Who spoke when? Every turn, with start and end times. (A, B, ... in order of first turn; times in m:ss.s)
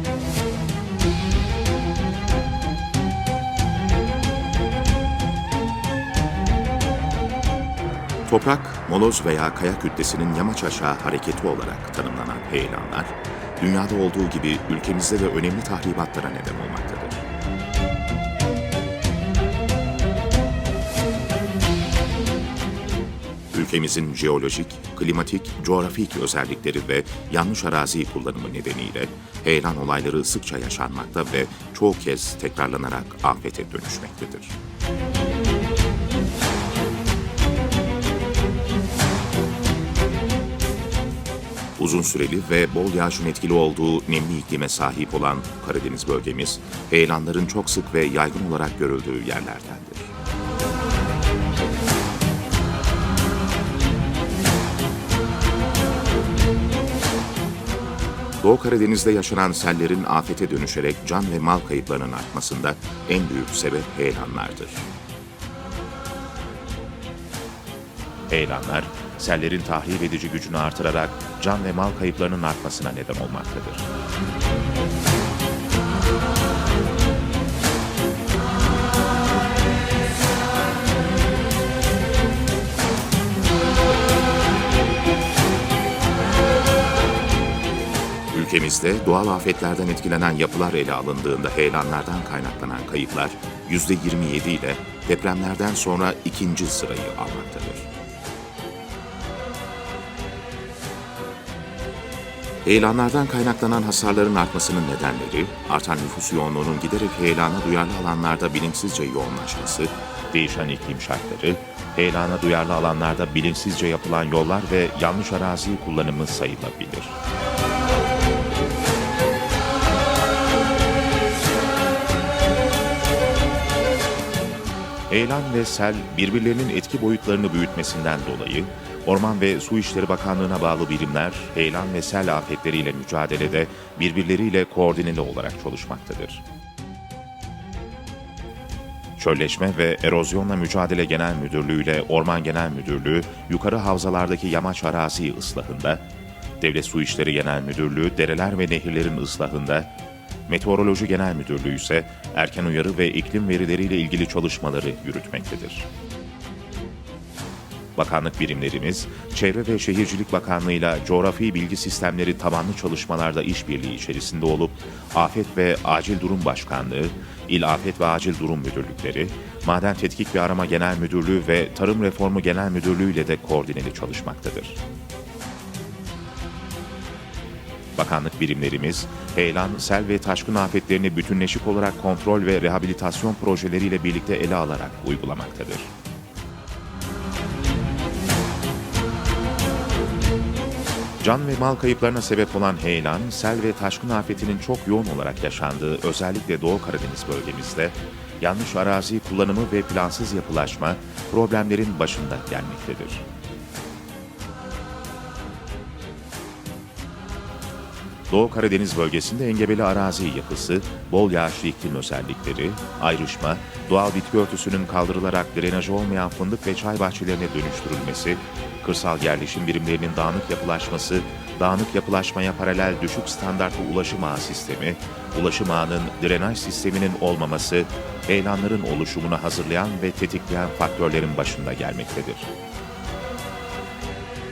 0:08.3-0:17.2 A
0:23.5-0:34.6 A
0:41.8-0:50.1 A
0:58.4-1:04.9 A
1:08.3-1:13.9 A
1:28.3-1:37.9 A
1:42.6-1:57.2 A
2:05.1-2:16.4 A
2:19.2-2:26.0 A
2:26.6-2:29.9 A
2:30.5-2:35.9 A
2:38.0-2:54.8 A
2:58.0-3:05.9 A
3:11.2-3:23.2 A
3:28.3-3:52.5 A